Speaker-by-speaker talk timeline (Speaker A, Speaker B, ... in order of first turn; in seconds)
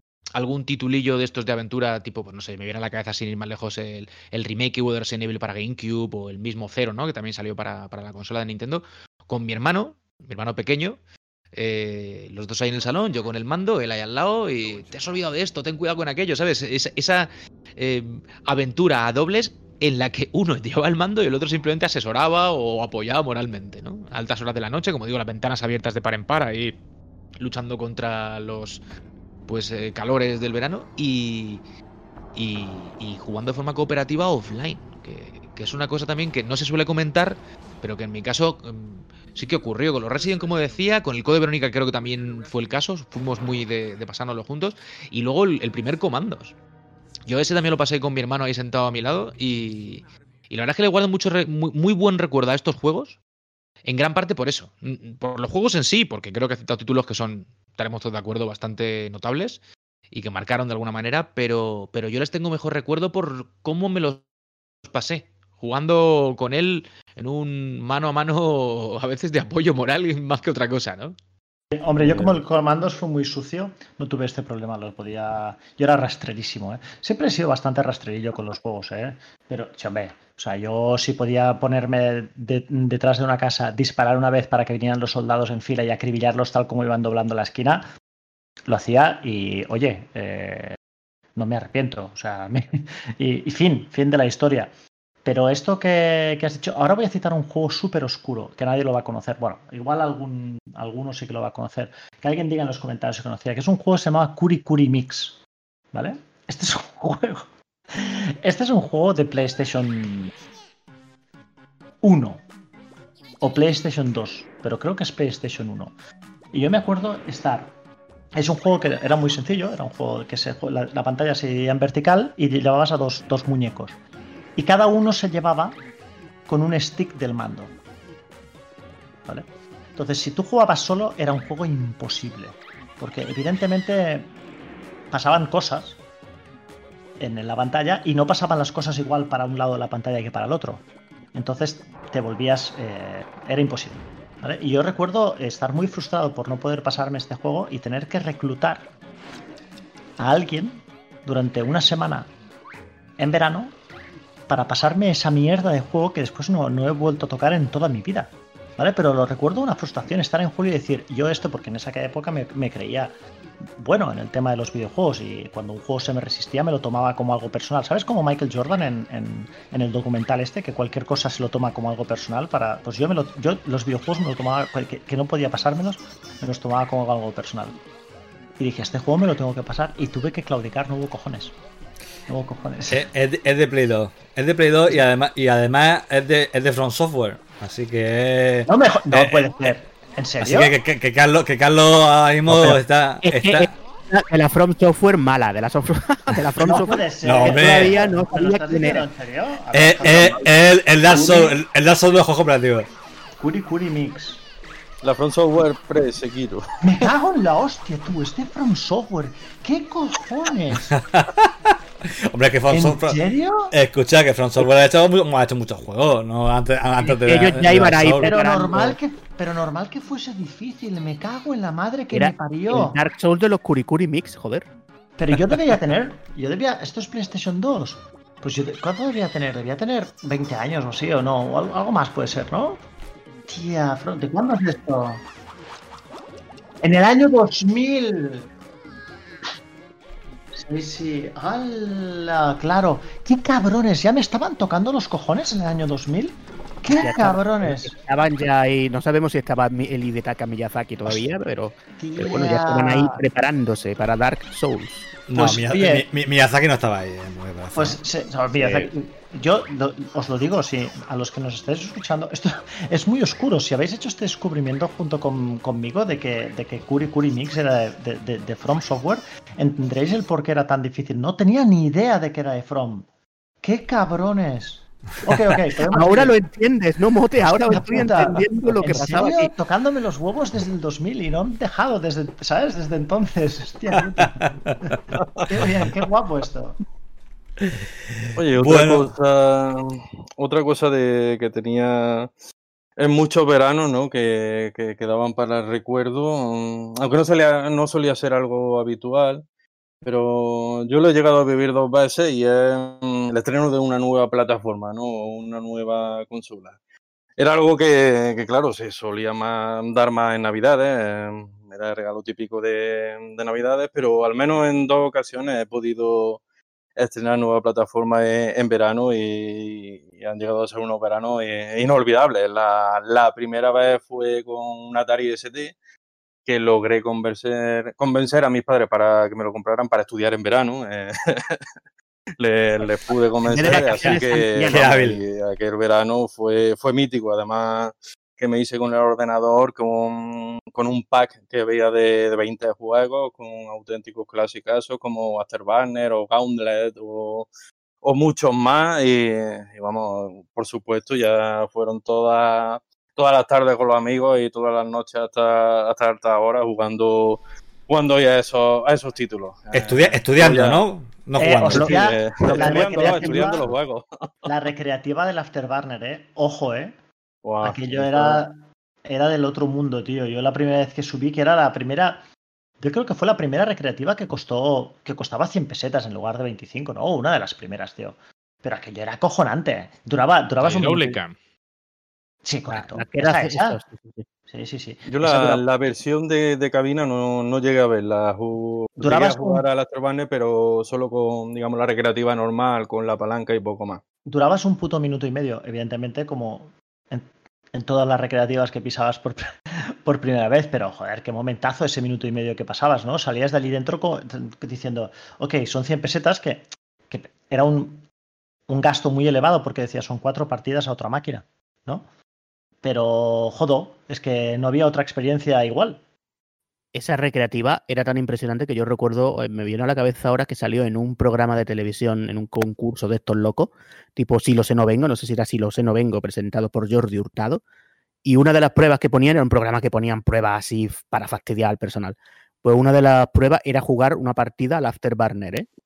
Speaker A: 0.4-11.0, 11.5-26.8, 27.4-28.8, 29.5-31.6, 32.4-46.5, 47.3-53.2, 53.9-59.6, 60.1-64.3, 64.9-71.2, 380.6-381.4
Speaker B: 71.7-87.9, 88.7-90.8, 91.4-94.7, 95.2-105.4, 105.9-110.3, 112.0-112.4, 113.4-115.9, 116.5-117.7, 118.3-124.0, 124.6-125.8, 126.5-127.7, 129.3-134.3, 135.1-136.0, 137.2-140.8, 141.3-148.9, 150.2-152.3, 153.2-153.7, 154.5-163.2, 163.8-177.8, 178.6-181.5, 182.3-183.1, 188.7-190.7, 196.6-201.6, 203.4-204.4, 206.8-210.9, 212.7-213.7, 218.2-223.0, 225.2-232.8, 233.5-235.2, 236.8-238.5, 240.6-247.9, 252.0-253.2, 255.3-256.0, 257.8-273.1, 273.6-276.4, 277.7-286.8, 333.5-335.1, 361.4-363.7, 364.5-366.9, 367.6-372.2, 372.8-381.2, 382.4-383.8, 384.5-385.6, 389.0-389.6, 394.3-408.1, 408.7-412.1, 412.8-416.0
Speaker C: 72.0-72.4, 205.0-207.1, 285.1-285.4, 288.4-292.3, 293.0-299.4, 300.0-306.8, 307.4-316.4, 317.0-325.8, 326.5-331.6, 332.4-347.5, 348.0-360.8, 361.7-364.1, 367.4-368.4, 385.1-394.0
Speaker D: 182.9-189.7, 190.4-193.7, 197.2-198.0, 199.7-202.9, 210.9-213.2, 213.7-218.3, 255.3-258.0, 287.6-289.1, 334.7-335.2, 359.7-362.6
Speaker E: 192.5-199.1, 217.1-219.0, 222.1-224.7, 246.9-255.2, 258.5-258.9, 275.8-279.5, 333.7-334.3, 362.6-363.2, 382.7-384.2, 416.9-427.6, 428.2-435.7